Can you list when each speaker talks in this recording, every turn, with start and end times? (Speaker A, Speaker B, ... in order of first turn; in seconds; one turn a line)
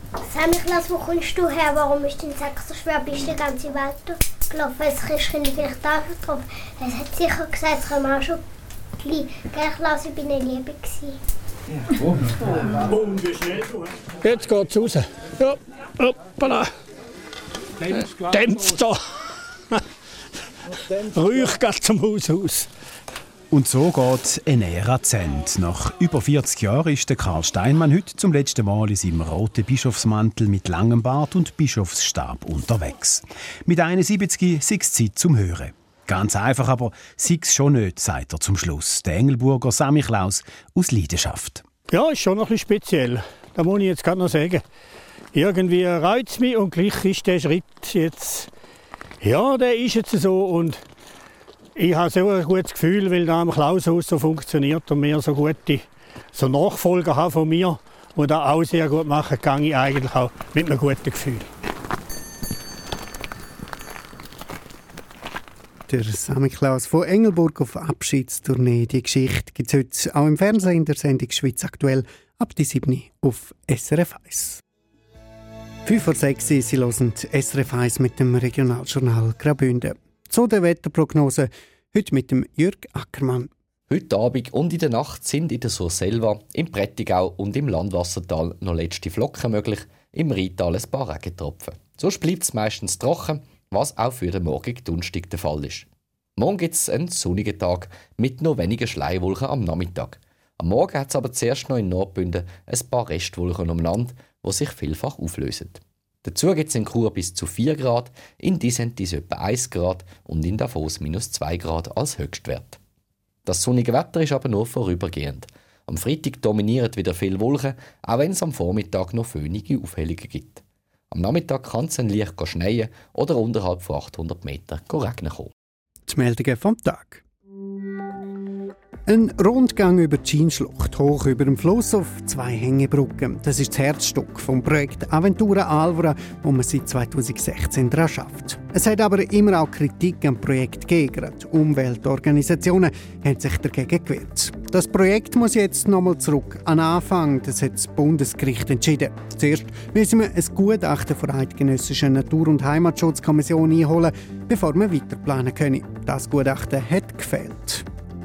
Speaker A: 0.2-8.4
Speaker A: 9.0-11.2
Speaker B: 12.8-16.7
Speaker B: 17.9-19.0
Speaker B: 20.9-22.7
Speaker C: 23.5-41.6
Speaker B: 41.9-44.6
Speaker B: 45.3-48.5
Speaker B: 49.2-50.8
Speaker B: 51.8-61.5
Speaker D: 65.9-74.6
Speaker D: 75.8-83.5
Speaker E: 83.9-112.8
Speaker E: 113.5-125.5
Speaker D: 126.1-127.2
Speaker D: 129.1-157.8